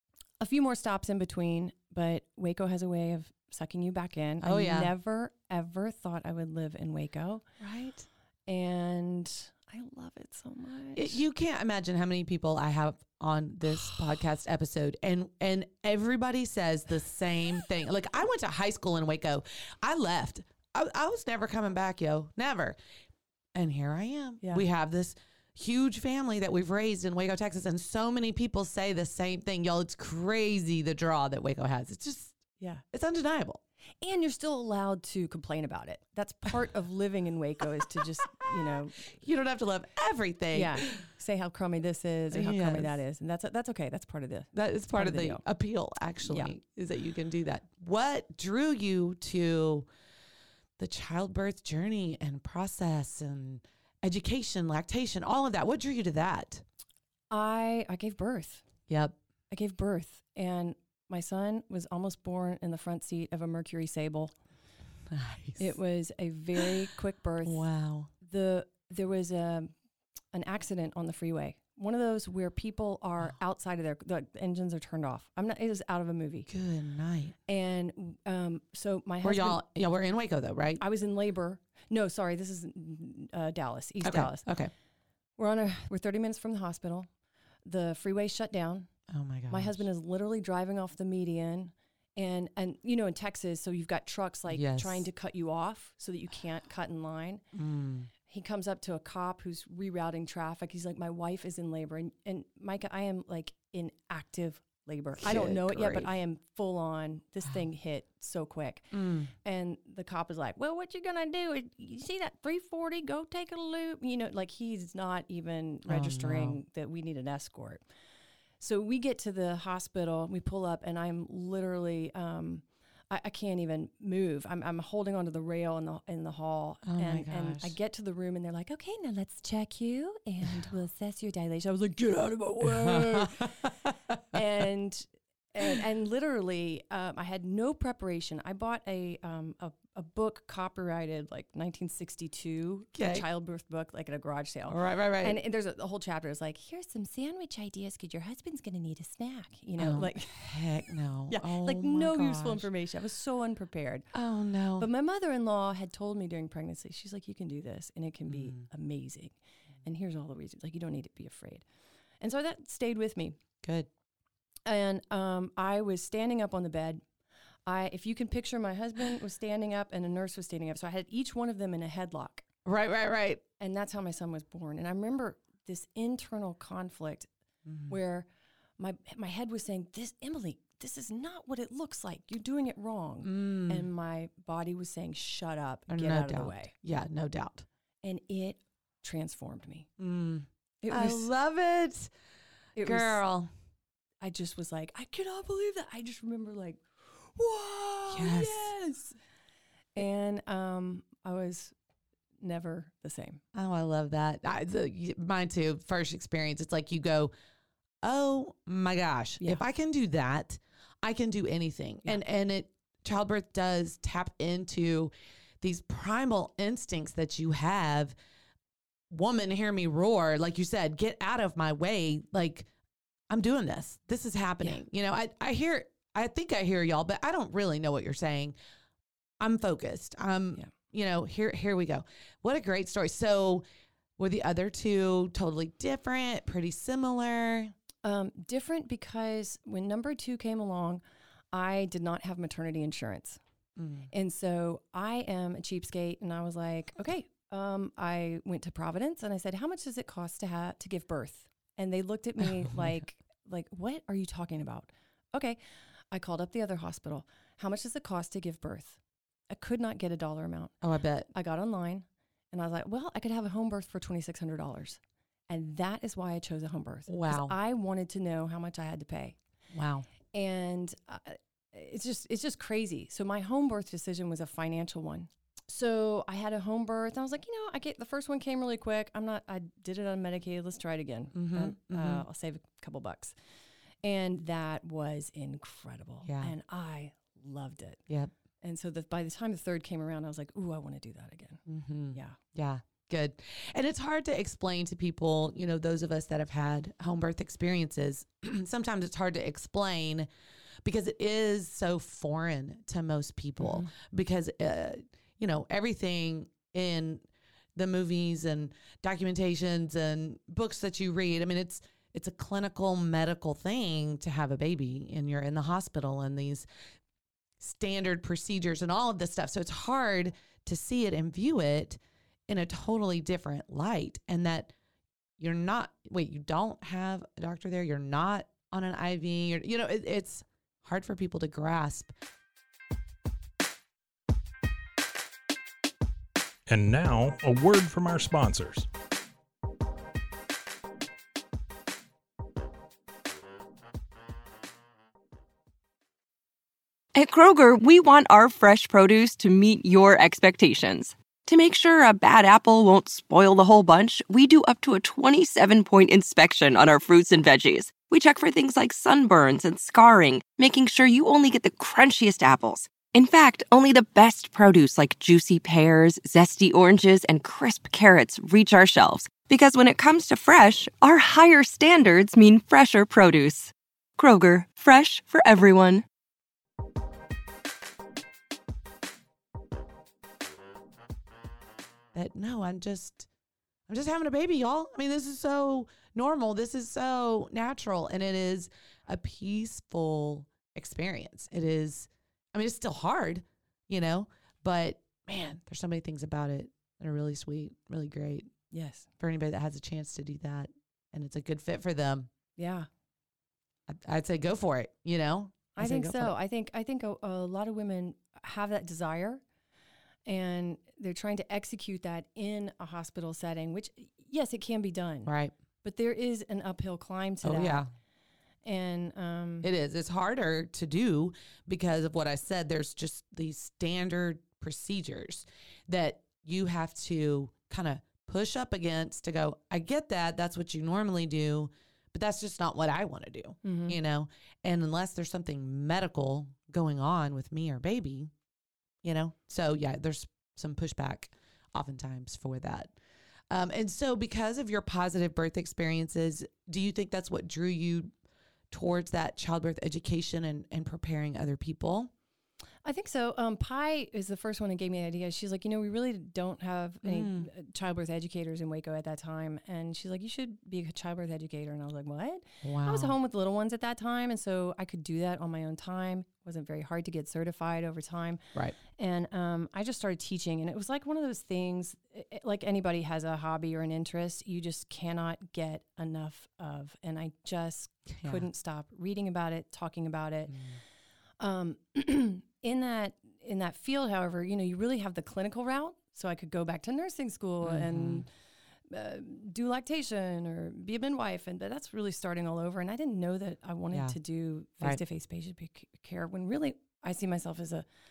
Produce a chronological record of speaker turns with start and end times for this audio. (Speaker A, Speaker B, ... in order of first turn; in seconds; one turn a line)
Speaker A: 0.4-7.6
Speaker B: 4.4-4.9
Speaker B: 7.6-8.0
Speaker A: 8.5-11.2
Speaker B: 10.9-22.8
Speaker B: 23.5-32.4
Speaker B: 32.9-33.6
Speaker A: 34.0-39.0
Speaker B: 39.1-41.0
Speaker A: 40.5-45.4
Speaker B: 42.3-43.0
Speaker B: 44.5-49.9
Speaker A: 46.2-46.5
Speaker B: 50.8-56.6
Speaker A: 57.3-58.6
Speaker B: 58.9-59.2
Speaker A: 59.5-64.3
Speaker B: 65.1-65.7
Speaker A: 65.6-67.6
Speaker B: 67.4-68.1
Speaker A: 68.2-69.7
Speaker A: 70.3-76.5
Speaker B: 76.5-77.3
Speaker A: 77.5-79.6
Speaker B: 79.2-80.8
Speaker A: 80.8-84.5
Speaker B: 84.0-84.7
Speaker A: 85.4-87.1
Speaker A: 87.6-88.9
Speaker B: 89.1-89.8
Speaker A: 89.5-97.4
Speaker B: 94.5-95.0
Speaker B: 97.5-98.1
Speaker A: 98.3-117.8
Speaker B: 105.2-106.1
Speaker B: 108.9-109.3
Speaker B: 115.8-116.6
Speaker A: 118.6-133.5
Speaker B: 126.8-127.8
Speaker B: 132.7-134.2
Speaker A: 134.3-150.3
Speaker B: 142.9-143.3
Speaker B: 144.7-145.4
Speaker B: 149.8-152.7
Speaker A: 151.3-154.1
Speaker B: 154.1-154.9
Speaker A: 154.8-161.6
Speaker B: 158.3-158.7
Speaker A: 162.2-163.4
Speaker B: 163.6-163.9
Speaker A: 164.7-167.0
Speaker A: 167.7-172.4
Speaker B: 172.6-173.4
Speaker A: 173.6-177.3
Speaker B: 177.6-178.0
Speaker A: 177.9-178.3
Speaker A: 178.8-186.7
Speaker B: 183.2-183.9
Speaker B: 185.9-187.7
Speaker A: 188.0-189.9
Speaker B: 190.0-192.1
Speaker A: 190.8-191.3
Speaker A: 192.8-193.2
Speaker B: 192.8-193.5
Speaker A: 194.2-199.2
Speaker B: 198.1-198.7
Speaker A: 199.9-201.7
Speaker A: 202.4-203.4
Speaker B: 203.5-207.3
Speaker B: 208.0-218.1
Speaker B: 219.1-222.7
Speaker B: 223.3-228.5
Speaker B: 229.4-233.6
Speaker B: 234.2-237.7
Speaker A: 238.0-243.4
Speaker B: 243.8-244.1
Speaker A: 244.1-255.6
Speaker B: 252.4-253.0
Speaker A: 256.1-259.0
Speaker A: 259.5-260.8
Speaker B: 260.8-261.3
Speaker A: 261.3-269.4
Speaker B: 267.1-267.6
Speaker B: 269.7-270.1
Speaker A: 270.3-283.3
Speaker B: 281.3-282.2
Speaker A: 284.0-288.0
Speaker B: 286.2-286.5
Speaker A: 288.6-291.6
Speaker B: 291.7-300.3
Speaker B: 300.8-307.2
Speaker A: 303.6-303.9
Speaker B: 307.7-316.7
Speaker B: 317.6-324.7
Speaker B: 325.4-332.1
Speaker C: 336.7-338.9
Speaker D: 347.1-376.0
Speaker B: 382.1-383.3
Speaker B: 383.9-398.5
Speaker A: 398.7-399.1
Speaker B: 399.2-402.3
Speaker A: 402.6-402.9
Speaker B: 403.9-406.3
Speaker A: 405.8-409.4
Speaker A: 410.2-415.3
Speaker B: 415.2-415.5
Speaker A: 415.8-417.9
Speaker B: 417.4-417.9
Speaker A: 418.6-419.7
Speaker B: 419.6-438.3
Speaker A: 433.6-434.0
Speaker B: 439.0-442.9
Speaker B: 443.5-448.1
Speaker B: 448.7-452.1
Speaker A: 452.8-480.6
Speaker B: 457.0-457.5
Speaker B: 462.6-463.1
Speaker B: 478.1-478.5
Speaker B: 480.5-480.8
Speaker A: 481.4-488.3
Speaker B: 487.6-488.3
Speaker A: 488.9-497.8
Speaker B: 493.9-494.2